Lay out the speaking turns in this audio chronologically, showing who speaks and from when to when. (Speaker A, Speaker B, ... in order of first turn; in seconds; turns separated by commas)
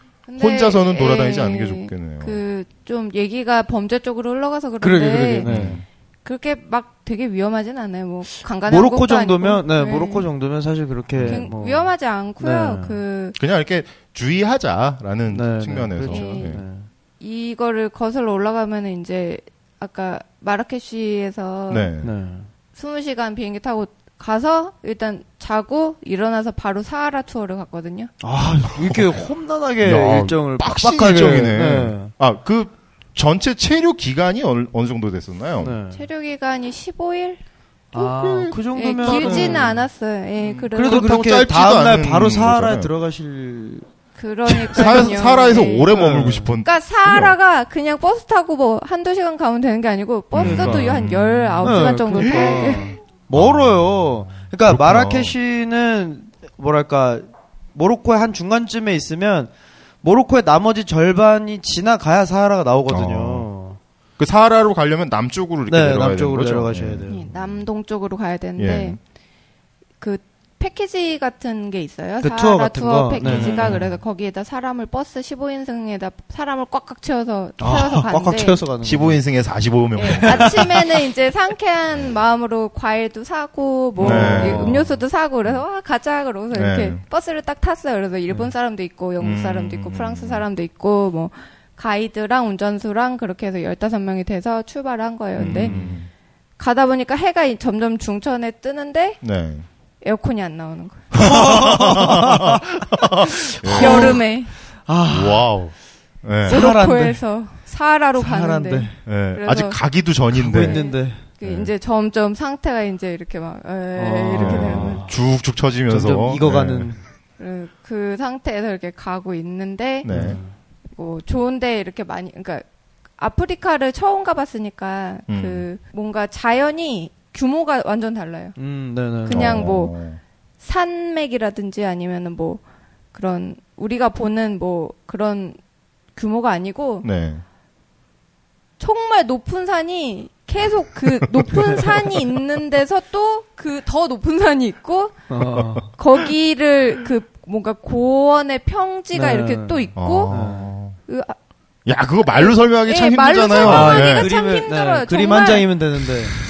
Speaker A: 0.3-5.6, Speaker B: 0.4-2.4, Speaker C: 4.8-5.8, Speaker B: 5.5-5.8, Speaker A: 6.2-10.3, Speaker C: 8.7-13.0, Speaker B: 11.2-11.5, Speaker A: 11.2-13.4, Speaker B: 13.4-16.6, Speaker C: 15.3-16.9, Speaker A: 16.1-16.6, Speaker A: 17.2-21.9, Speaker B: 21.7-22.1, Speaker C: 22.0-22.5, Speaker A: 22.8-28.1, Speaker C: 28.2-32.1, Speaker B: 28.7-29.2, Speaker B: 29.8-35.7, Speaker C: 35.6-36.0, Speaker A: 35.9-37.4, Speaker C: 37.9-39.7, Speaker B: 37.9-39.8, Speaker A: 38.8-41.2, Speaker B: 40.4-42.9, Speaker C: 40.8-43.9, Speaker A: 44.2-46.1, Speaker B: 44.5-47.4, Speaker C: 45.9-46.5, Speaker A: 46.6-53.0, Speaker B: 50.3-52.8, Speaker C: 50.4-50.8, Speaker C: 51.6-59.5, Speaker B: 53.3-55.3, Speaker C: 60.0-63.8, Speaker B: 62.9-63.5, Speaker B: 64.2-67.7, Speaker C: 65.7-67.3, Speaker A: 67.1-69.0, Speaker B: 68.6-69.0, Speaker A: 70.0-78.6, Speaker C: 72.2-73.9, Speaker B: 73.2-73.9, Speaker C: 77.6-79.2, Speaker B: 78.8-80.9, Speaker A: 80.0-95.7, Speaker C: 80.2-80.7, Speaker C: 84.0-84.9, Speaker B: 84.0-84.9, Speaker B: 86.5-87.0, Speaker B: 89.2-90.5, Speaker B: 95.4-96.1, Speaker C: 95.6-96.0, Speaker A: 96.6-99.2, Speaker B: 99.2-99.7, Speaker A: 100.0-101.1, Speaker C: 101.2-104.3, Speaker B: 101.2-104.2, Speaker A: 103.7-104.5, Speaker C: 104.8-105.5, Speaker B: 105.1-106.6, Speaker C: 106.5-107.2, Speaker A: 106.5-109.8, Speaker C: 108.2-109.0, Speaker B: 109.1-110.8, Speaker C: 110.3-111.2, Speaker A: 110.6-115.0, Speaker B: 111.4-111.7, Speaker C: 114.0-115.2, Speaker B: 114.4-117.0, Speaker C: 115.9-117.0, Speaker A: 117.4-120.1, Speaker B: 120.0-120.4, Speaker C: 120.1-120.5, Speaker A: 120.9-122.7, Speaker A: 123.2-128.6, Speaker B: 125.3-125.7, Speaker C: 128.6-129.7, Speaker A: 129.2-129.9, Speaker B: 129.3-130.2, Speaker A: 130.6-132.6, Speaker A: 133.1-135.6, Speaker A: 136.2-137.1, Speaker B: 137.0-137.4, Speaker A: 138.8-145.2, Speaker B: 141.1-141.8, Speaker C: 145.3-145.9, Speaker B: 145.4-145.8, Speaker A: 146.0-150.4, Speaker C: 149.1-150.8, Speaker B: 150.0-151.0, Speaker A: 151.1-151.3, Speaker B: 151.9-154.3, Speaker A: 152.2-155.7, Speaker C: 153.6-156.4